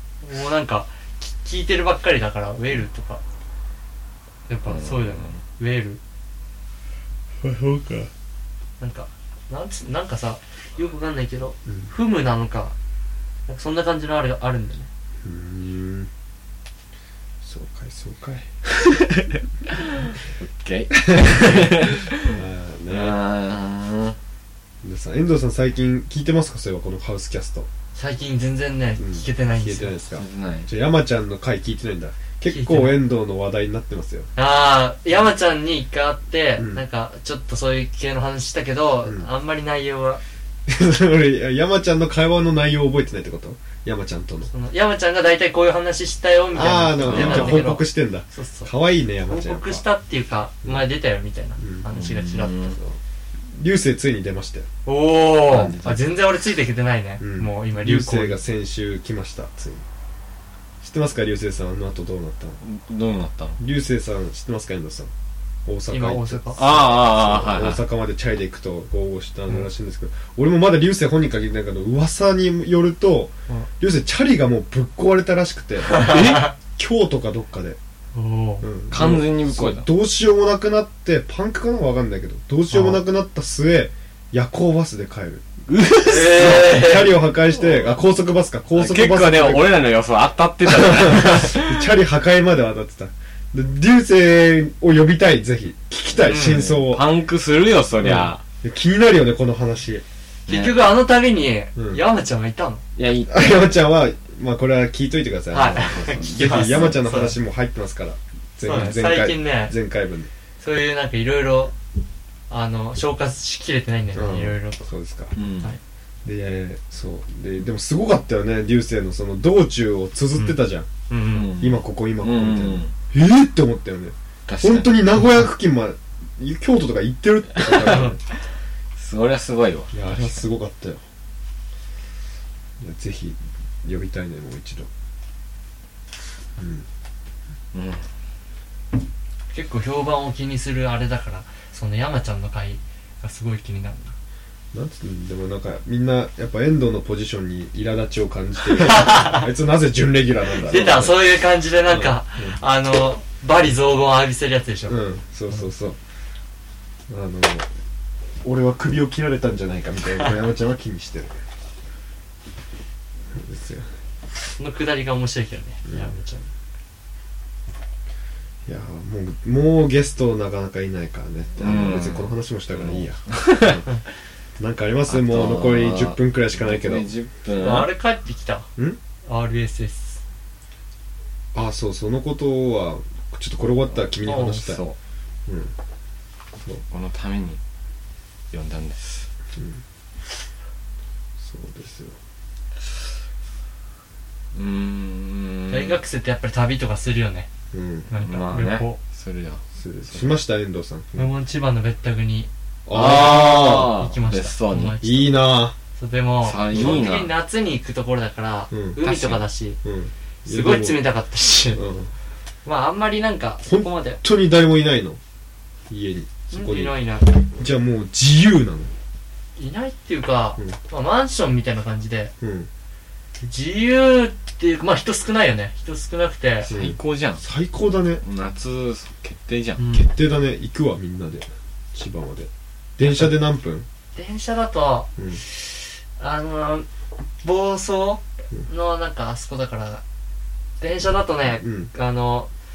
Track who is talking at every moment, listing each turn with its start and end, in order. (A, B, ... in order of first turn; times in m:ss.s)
0:00.2-0:03.2 A
0:04.5-0:06.0 A
0:04.7-0:05.4 B
0:07.4-0:08.1 C
0:08.8-0:12.8 A
0:13.5-0:14.9 A
0:15.2-0:16.1 C
0:17.4-0:18.6 C
0:19.7-0:24.2 B
0:21.0-0:23.2 C
0:24.8-0:27.7 C
0:28.0-0:30.0 A
0:29.0-0:34.3 C
0:30.2-0:30.7 B
0:32.5-0:33.0 A
0:34.4-0:40.2 A
0:40.7-0:44.5 C
0:44.5-0:48.7 A
0:46.6-0:49.8 C
0:47.0-0:47.7 B
0:49.3-0:52.8 A
0:51.6-0:51.9 C
0:51.9-0:52.8 B
0:53.5-0:54.7 C
0:54.9-0:58.4 A
0:55.5-0:56.1 B
0:57.2-0:59.8 C
1:00.8-1:02.6 C
1:02.6-1:03.6 B
1:03.6-1:05.1 C
1:05.7-1:17.8 C
1:05.9-1:06.6 A
1:06.6-1:07.8 B
1:15.9-1:16.5 A
1:16.0-1:16.5 B
1:18.2-1:18.7 A
1:18.6-1:25.5 C
1:18.9-1:19.9 B
1:22.7-1:23.0 A
1:25.7-1:26.8 B
1:26.0-1:27.2 A
1:26.1-1:29.8 C
1:27.6-1:27.9 B
1:28.8-1:31.9 B
1:30.7-1:37.1 C
1:36.2-1:38.4 B
1:36.2-1:36.7 A
1:38.0-1:40.0 C
1:40.5-1:40.9 B
1:40.5-1:42.8 A
1:41.8-1:42.0 C
1:43.0-1:43.6 B
1:43.3-1:50.3 C
1:45.5-1:47.4 A
1:45.6-1:47.0 B
1:48.6-1:49.8 A
1:50.6-1:51.7 A
1:52.5-1:54.9 A
1:54.1-1:55.4 C
1:55.4-1:55.7 B
1:56.2-2:00.9 C
2:01.1-2:01.5 A
2:01.3-2:02.9 B
2:01.6-2:08.2 C
2:04.5-2:05.0 B
2:07.8-2:08.2 A
2:09.0-2:10.4 B
2:09.9-2:11.0 C
2:12.8-2:14.9 C
2:16.6-2:16.9 C
2:17.7-2:18.0 B
2:19.5-2:24.1 A
2:24.7-2:31.2 C
2:28.8-2:29.5 A
2:30.6-2:35.0 A
2:31.9-2:32.6 C
2:34.9-2:36.0 C
2:37.1-2:37.7 C
2:38.4-2:41.4 C
2:43.3-2:43.9 C
2:44.6-2:46.5 A
2:45.9-2:46.1 C
2:48.7-2:54.0 C
2:51.6-2:53.8 B
2:54.6-2:57.1 C
2:55.1-2:57.9 B
2:57.6-2:58.7 A
2:59.2-3:00.2 A
3:01.5-3:04.8 C
3:04.3-3:04.7 A
3:04.5-3:05.0 B
3:05.5-3:05.7 C
3:06.9-3:07.6 B
3:08.5-3:09.3 B
3:09.6-3:09.8 C
3:11.4-3:12.2 C
3:14.5-3:16.0 B
3:15.7-3:17.5 A
3:17.7-3:18.1 C
3:18.1-3:19.0 A
3:18.2-3:20.3 B
3:19.8-3:21.3 C
3:21.2-3:22.5 A
3:22.9-3:23.9 C
3:22.9-3:25.0 B
3:23.1-3:25.4 A
3:25.0-3:25.8 C
3:26.0-3:29.8 A
3:26.4-3:27.3 B
3:26.7-3:27.0 C
3:28.7-3:29.0 C
3:29.0-3:29.4 B
3:29.8-3:31.0 C
3:30.5-3:31.8 A
3:31.8-3:32.1 C
3:32.6-3:34.2 A
3:33.7-3:35.2 C
3:35.9-3:37.0 C
3:36.5-3:37.4 A
3:37.5-3:38.9 C
3:39.6-3:42.3 A
3:42.4-3:42.7 C
3:43.4-3:46.7 A
3:46.6-3:47.4 B
3:46.7-3:48.2 C
3:48.2-3:49.8 B
3:49.8-3:50.1 A
3:49.9-3:53.9 C
3:54.2-3:56.9 A
3:55.2-3:55.4 C
3:57.4-4:00.0 A
4:00.8-4:02.5 A
4:01.6-4:01.9 C